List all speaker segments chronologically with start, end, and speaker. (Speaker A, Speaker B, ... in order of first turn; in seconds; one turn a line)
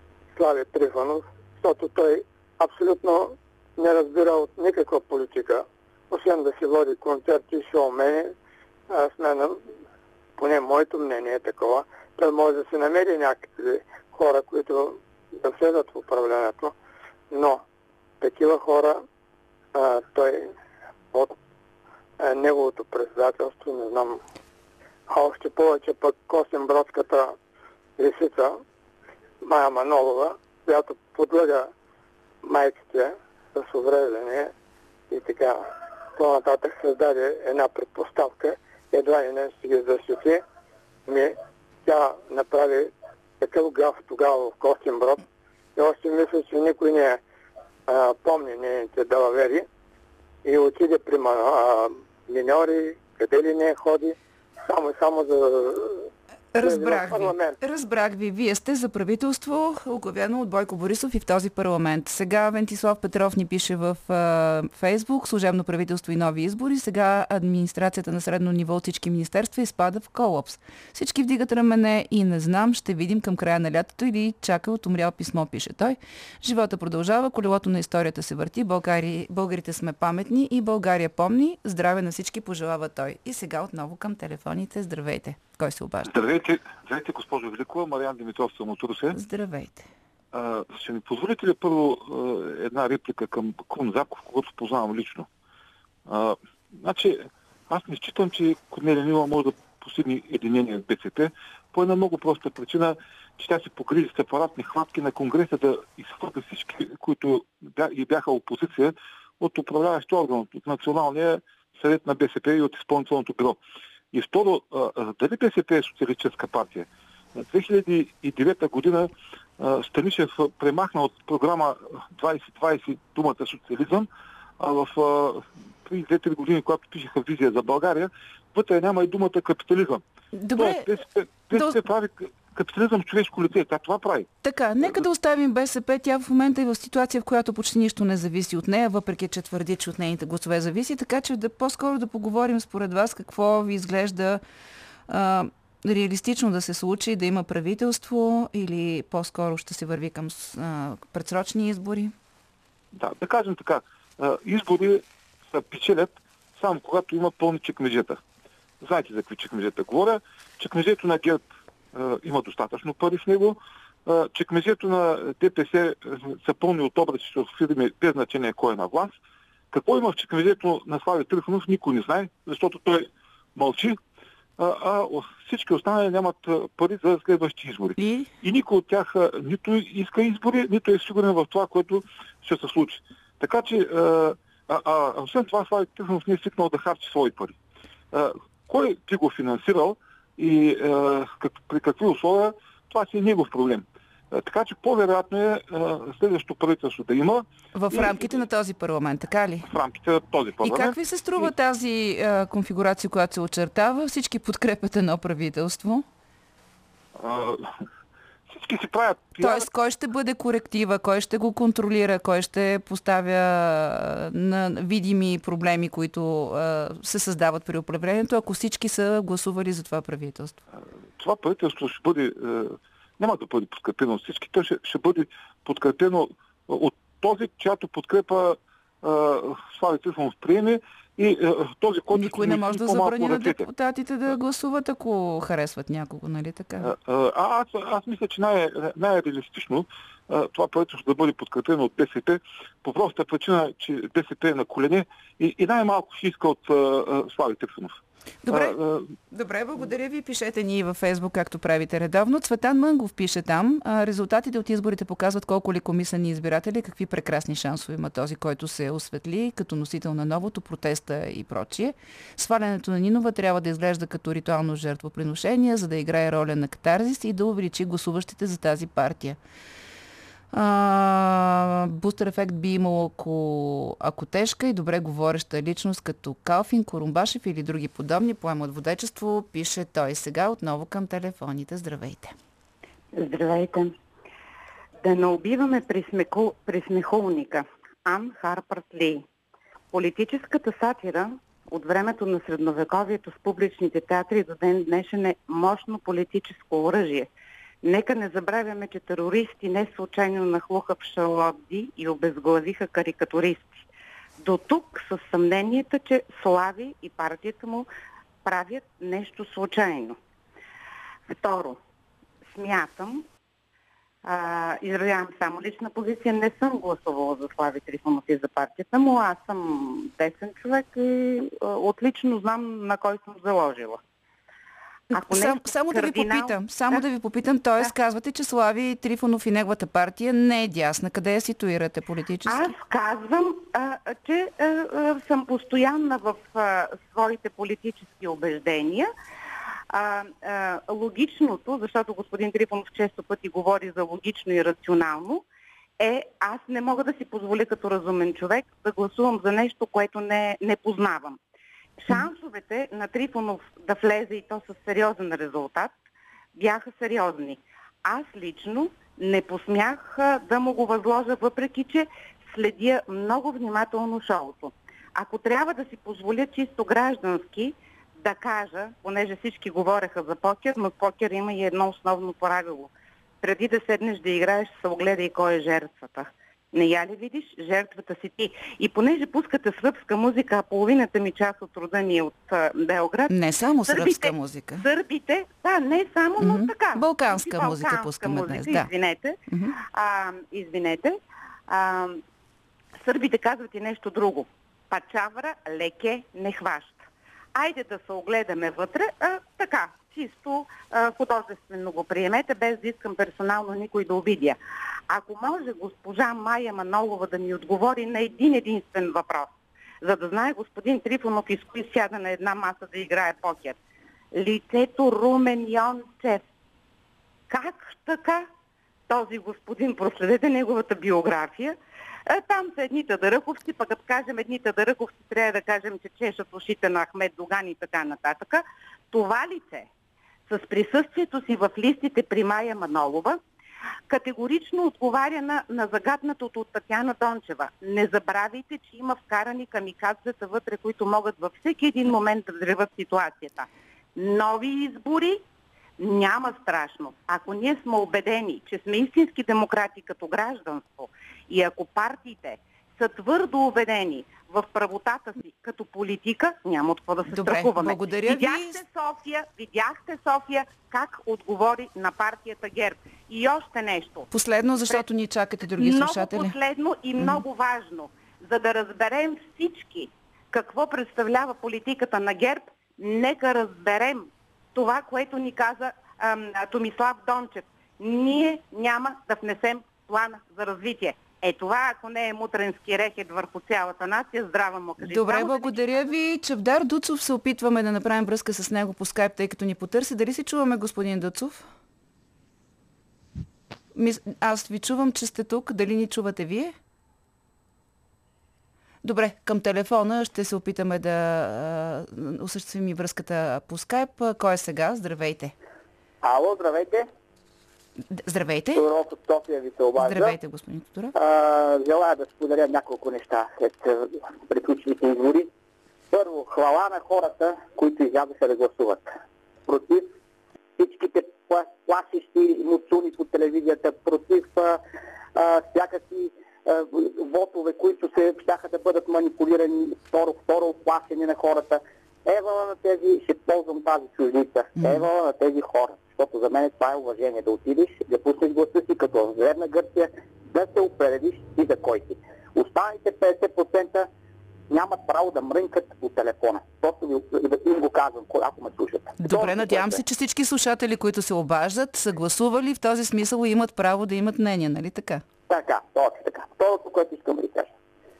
Speaker A: 0.3-8.3
Speaker A: 8.9-9.6
Speaker A: 10.4-16.7
Speaker A: 17.3-17.6
Speaker A: 18.2-19.0
Speaker A: 19.7-20.5
Speaker A: 22.2-24.2
Speaker A: 25.1-27.4
Speaker A: 28.0-28.6
Speaker A: 29.4-31.7
Speaker A: 32.4-34.5
Speaker A: 35.1-40.4
Speaker A: 41.1-45.2
Speaker A: 45.8-47.2
Speaker A: 47.9-49.7
Speaker A: 50.5-56.1
Speaker B: 56.5-86.1
Speaker A: 56.6-57.5
Speaker C: 86.1-89.2
Speaker B: 89.1-89.9
Speaker C: 90.3-95.3
Speaker C: 96.1-113.6
Speaker C: 114.1-124.1
Speaker C: 124.6-130.0
Speaker B: 130.3-130.9
Speaker C: 130.6-134.3
Speaker B: 131.5-131.8
Speaker B: 134.4-144.4
Speaker B: 145.1-152.1
Speaker C: 152.9-158.2
Speaker C: 158.8-169.1
Speaker C: 169.7-174.0
Speaker C: 174.6-187.6
Speaker B: 178.0-178.3
Speaker C: 188.1-198.3
Speaker B: 197.7-199.7
Speaker C: 199.6-201.5
Speaker B: 200.6-206.1
Speaker C: 207.2-207.7
Speaker C: 208.5-209.7
Speaker B: 209.4-220.6
Speaker C: 221.2-233.7
Speaker B: 232.1-236.9
Speaker C: 236.8-247.9
Speaker B: 248.4-248.8
Speaker C: 248.5-249.1
Speaker B: 249.3-269.4
Speaker B: 270.5-282.4
Speaker D: 283.2-283.9
Speaker D: 285.0-289.2
Speaker D: 289.9-297.3
Speaker D: 297.8-303.8
Speaker D: 304.4-307.9
Speaker D: 308.4-310.2
Speaker D: 311.3-311.8
Speaker D: 312.5-313.3
Speaker D: 314.2-324.0
Speaker D: 325.1-327.0
Speaker B: 325.1-332.7
Speaker D: 332.5-339.1
Speaker D: 339.9-345.4
Speaker D: 346.0-351.4
Speaker D: 352.0-355.9
Speaker D: 356.6-372.9
Speaker D: 373.4-383.3
Speaker B: 383.3-384.9
Speaker D: 383.9-389.4
Speaker B: 386.4-388.9
Speaker B: 389.5-389.8
Speaker D: 389.9-392.2
Speaker D: 393.0-397.0
Speaker D: 397.6-404.6
Speaker D: 405.1-409.5
Speaker D: 410.0-413.8
Speaker D: 414.3-416.4
Speaker D: 417.5-418.5
Speaker D: 419.1-421.8
Speaker D: 422.3-429.9
Speaker D: 430.5-433.4
Speaker D: 434.1-445.4
Speaker D: 446.0-464.3
Speaker B: 457.3-458.8
Speaker B: 464.3-466.6
Speaker D: 465.8-486.1
Speaker B: 485.0-491.7
Speaker B: 493.9-496.7
Speaker B: 499.0-505.6
Speaker E: 506.2-507.1
Speaker B: 508.1-508.9
Speaker E: 508.7-510.4
Speaker B: 510.0-511.1
Speaker E: 511.1-515.5
Speaker E: 516.1-519.1
Speaker E: 519.7-520.1
Speaker E: 520.8-524.8
Speaker E: 525.4-544.1
Speaker B: 534.8-535.0
Speaker E: 544.7-550.0
Speaker B: 549.2-555.2
Speaker E: 555.5-557.7